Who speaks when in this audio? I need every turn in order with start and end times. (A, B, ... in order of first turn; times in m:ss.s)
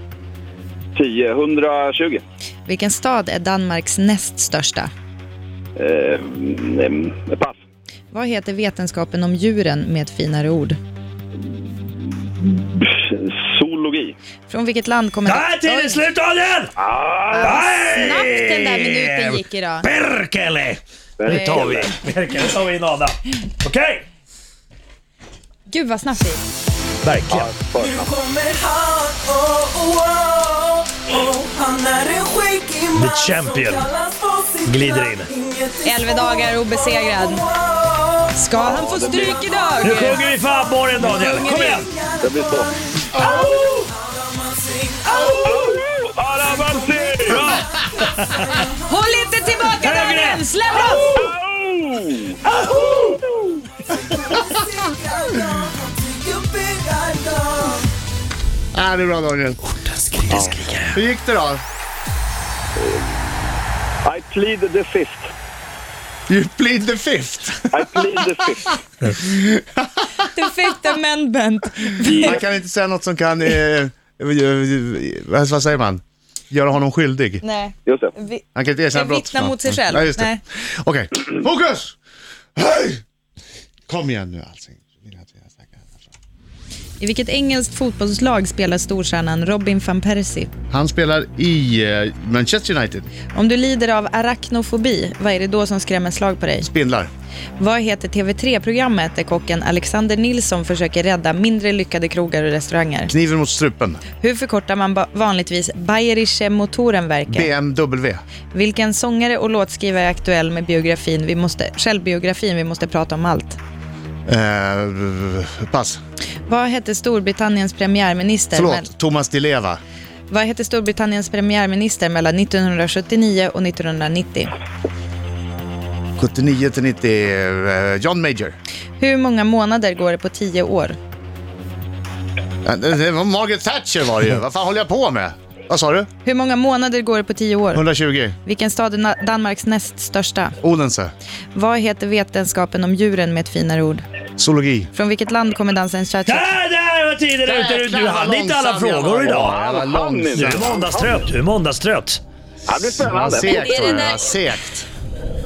0:01.0-0:02.2 A
0:02.7-0:04.9 B
0:05.8-0:07.6 A
0:08.1-0:10.8 B
0:12.0-0:14.2 A
0:14.5-0:16.0 B
0:15.2-0:16.8 C
0:16.8-0:17.9 A
0:17.3-0:19.9 B
0:17.4-0:24.0 C
0:21.2-0:21.9 A
0:21.3-0:21.7 B
0:25.7-0:26.4 B
0:27.0-0:27.5 C
0:27.3-0:28.2 A
0:27.8-0:36.4 D
0:32.9-0:33.9 C
0:34.6-0:35.3 C
0:35.8-0:37.5 B
0:37.0-0:40.0 D
0:38.3-0:40.2 B
0:38.6-0:39.4 A
0:39.8-0:41.9 C
0:41.0-0:41.9 B
0:41.4-0:45.8 D
0:42.2-0:42.7 A
0:45.4-0:47.5 A
0:46.5-0:48.6 D
0:47.2-0:48.4 C
0:48.8-0:51.1 B
0:49.8-0:50.4 C
0:51.2-0:53.5 A
0:52.7-0:53.2 D
0:53.8-0:57.9 D
0:58.7-0:59.6 E
1:00.0-1:01.0 C
1:00.3-1:00.6 A
1:00.8-1:01.6 E
1:02.8-1:03.4 A
1:04.0-1:05.3 A
1:06.3-1:08.0 E
1:07.7-1:08.7 A
1:08.7-1:10.0 E
1:10.2-1:12.4 B
1:12.1-1:12.4 A
1:12.2-1:17.4 E
1:17.4-1:20.4 B
1:17.9-1:18.1 A
1:18.6-1:22.0 E
1:22.6-1:23.0 E
1:23.9-1:26.1 E
1:27.0-1:30.5 B
1:30.7-1:33.1 E
1:33.3-1:36.7 B
1:36.6-1:37.1 E
1:37.6-1:43.1 B
1:43.1-1:44.0 E
1:44.2-1:47.5 B
1:47.3-1:48.2 E
1:48.5-1:53.6 B
1:54.3-1:56.0 E
1:56.5-1:58.9 B
1:58.5-1:59.8 E
2:00.3-2:04.5 B
2:06.2-2:08.6 E
2:09.0-2:11.0 B
2:12.6-2:16.1 E
2:16.2-2:17.8 B
2:17.8-2:18.4 E
2:18.4-2:20.6 B
2:20.6-2:21.1 E
2:21.5-2:24.0 B
2:24.4-2:24.9 E
2:24.9-2:26.6 B
2:26.3-2:29.6 C
2:27.4-2:30.8 E
2:29.3-2:31.3 A
2:30.3-2:32.2 C
2:32.7-2:34.1 A
2:33.0-2:34.8 E
2:33.4-2:34.3 B